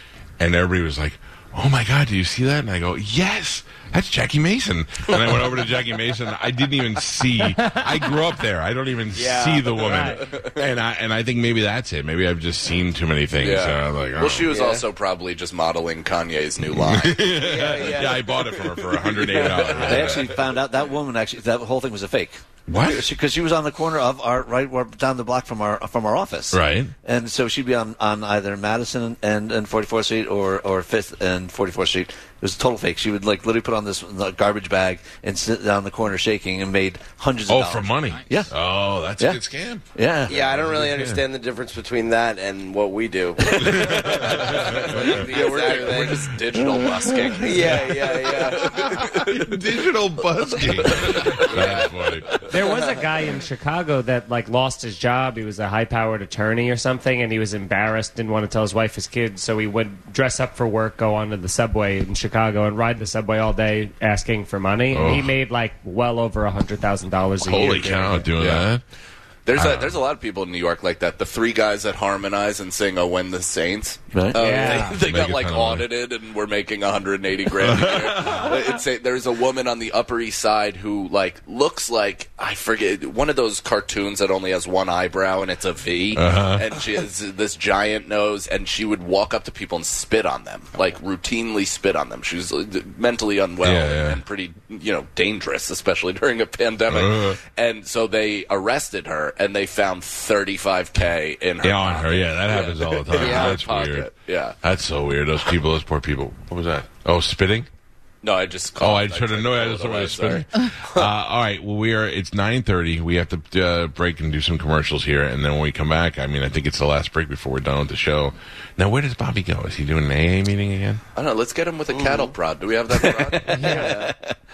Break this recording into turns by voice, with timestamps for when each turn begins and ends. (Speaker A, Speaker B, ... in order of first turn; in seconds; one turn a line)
Speaker A: 0.4-14.5
Speaker B: 7.4-8.0
Speaker C: 9.1-10.1
Speaker B: 9.9-10.2
Speaker D: 10.3-10.5
Speaker D: 13.4-20.3
Speaker C: 14.5-14.8
Speaker A: 16.7-20.4
Speaker C: 17.3-18.3
Speaker C: 19.4-19.8
Speaker E: 19.8-38.5
Speaker A: 22.7-23.1
Speaker A: 26.5-26.9
Speaker A: 37.5-41.2
Speaker E: 40.0-40.4
Speaker C: 40.3-46.4
Speaker A: 43.6-45.2
Speaker D: 44.2-49.5
Speaker C: 47.3-49.2
Speaker A: 48.8-52.4
Speaker D: 50.9-52.5
Speaker B: 52.5-68.3
Speaker A: 64.9-65.3
Speaker A: 67.4-68.8
Speaker D: 68.4-68.7
Speaker D: 69.5-104.6
Speaker A: 69.5-70.0
Speaker E: 74.1-74.4
Speaker B: 74.4-75.0
Speaker A: 74.6-75.9
Speaker A: 77.6-78.6
Speaker A: 86.1-86.7
Speaker A: 93.6-94.2
Speaker A: 96.9-97.4
Speaker A: 101.6-104.1
Speaker C: 103.2-103.6
Speaker A: 104.6-107.7
Speaker D: 108.2-110.5
Speaker A: 108.8-121.0
Speaker D: 121.2-124.0
Speaker C: 121.9-122.3
Speaker C: 123.3-124.2
Speaker B: 123.6-123.9
Speaker E: 123.7-124.0